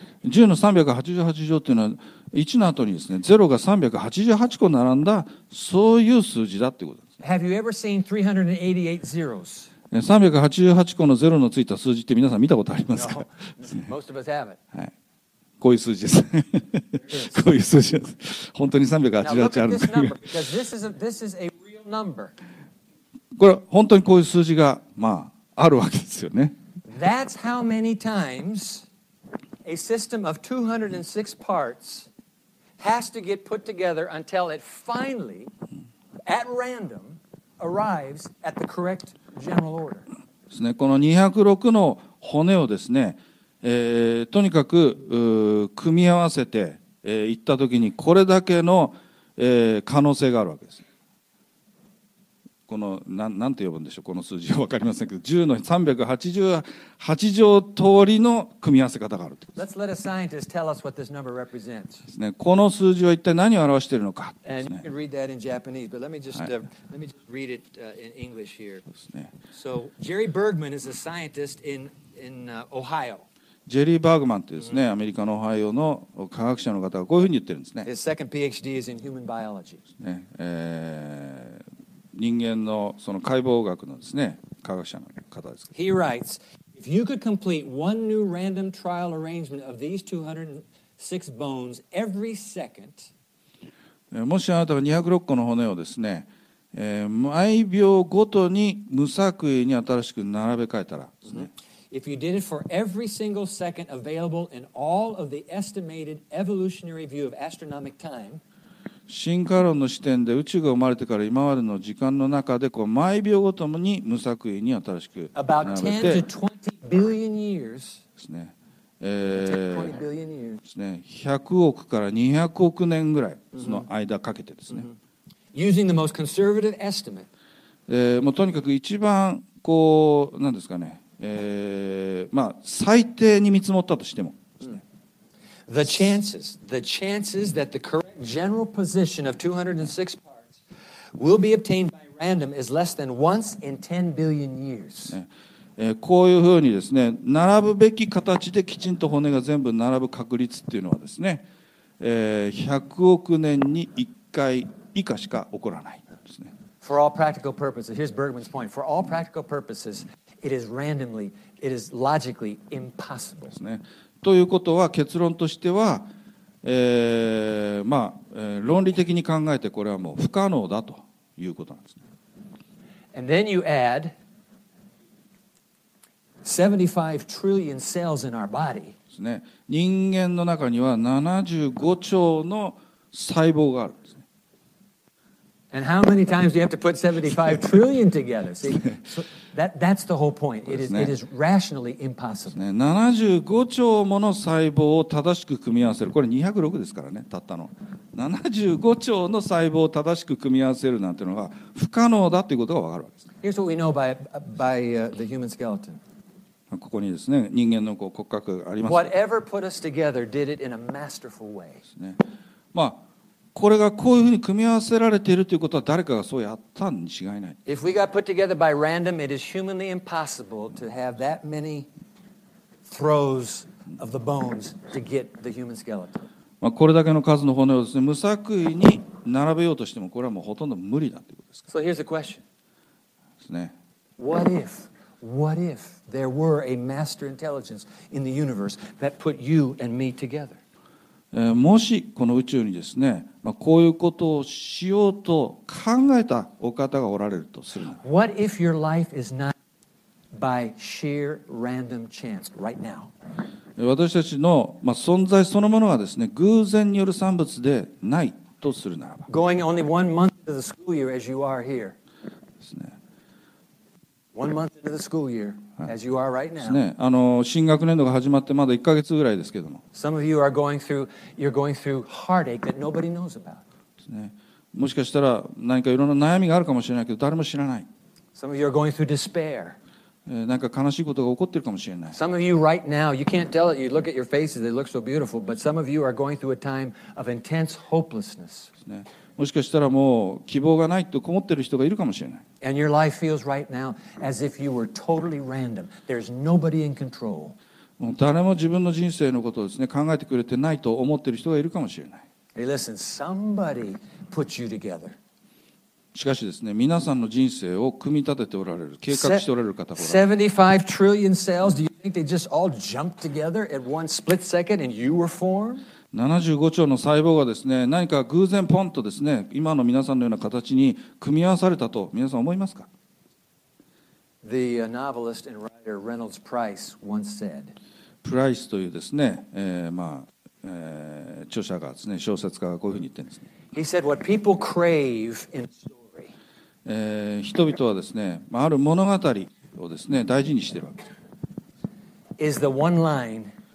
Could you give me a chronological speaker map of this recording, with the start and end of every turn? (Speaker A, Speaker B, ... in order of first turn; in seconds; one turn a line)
Speaker A: 0.2-7.1
Speaker B: 7.2-9.7
Speaker A: 9.9-13.3
Speaker B: 12.9-14.6
Speaker A: 15.6-20.3
Speaker B: 17.0-17.4
Speaker B: 19.2-22.3
Speaker A: 23.3-26.5
Speaker B: 26.9-28.9
Speaker B: 29.6-32.1
Speaker B: 32.8-35.5
Speaker B: 36.2-40.0
Speaker A: 40.5-50.8
Speaker A: 52.7-59.6
Speaker B: 59.5-62.1
Speaker A: 62.1-64.8
Speaker B: 64.4-68.8
Speaker A: 69.0-69.3
Speaker B: 69.5-73.3
Speaker A: 73.7-77.9
Speaker B: 77.8-79.8
Speaker A: 80.0-85.7
Speaker B: 85.7-93.1
Speaker A: 94.1-101.5
Speaker B: 101.3-108.4
Speaker A: 109.1-116.2
Speaker B: 115.3-118.0
Speaker A: 118.2-120.0
Speaker B: 119.3-120.6
Speaker A: 120.6-124.9
Speaker B: 123.5-123.8
Speaker B: 125.5-127.3
Speaker A: 127.9-134.8
Speaker B: 135.7-140.6
Speaker B: 141.2-145.2
Speaker A: 145.1-151.4
Speaker A: 152.0-156.5
Speaker B: 156.8-163.6
Speaker A: 163.5-166.1
Speaker A: 166.6-172.0
Speaker B: 173.1-174.1
Speaker B: 176.4-178.9
Speaker A: 179.1-184.2
Speaker B: 185.7-192.6
Speaker A: 190.7-191.1
Speaker A: 192.5-203.3
Speaker B: 203.4-206.0
Speaker A: 206.7-209.1
Speaker B: 208.8-211.8
Speaker A: 212.7-213.0
Speaker A: 213.5-217.6
Speaker B: 217.7-221.9
Speaker B: 222.8-226.2
Speaker A: 226.6-231.6
Speaker B: 231.7-232.4
Speaker A: 233.4-233.7
Speaker B: 234.2-240.6
Speaker A: 241.3-248.0
Speaker B: 248.0-249.5
Speaker B: 250.3-253.1
Speaker A: 253.8-259.3
Speaker B: 259.3-261.9
Speaker A: 262.6-263.0
Speaker B: 264.3-266.8
Speaker A: 266.6-269.8
Speaker B: 269.9-273.6
Speaker A: 274.0-277.9
Speaker B: 278.4-279.8
Speaker A: 280.2-282.2
Speaker B: 282.1-288.7
Speaker A: 288.9-292.4
Speaker B: 292.6-297.6
Speaker A: 298.0-302.2
Speaker B: 302.5-305.2
Speaker A: 306.1-310.2
Speaker B: 309.1-315.9
Speaker A: 316.1-322.9
Speaker B: 324.4-327.7
Speaker A: 328.2-333.4
Speaker B: 333.7-336.3
Speaker A: 336.8-341.0
Speaker B: 342.4-343.5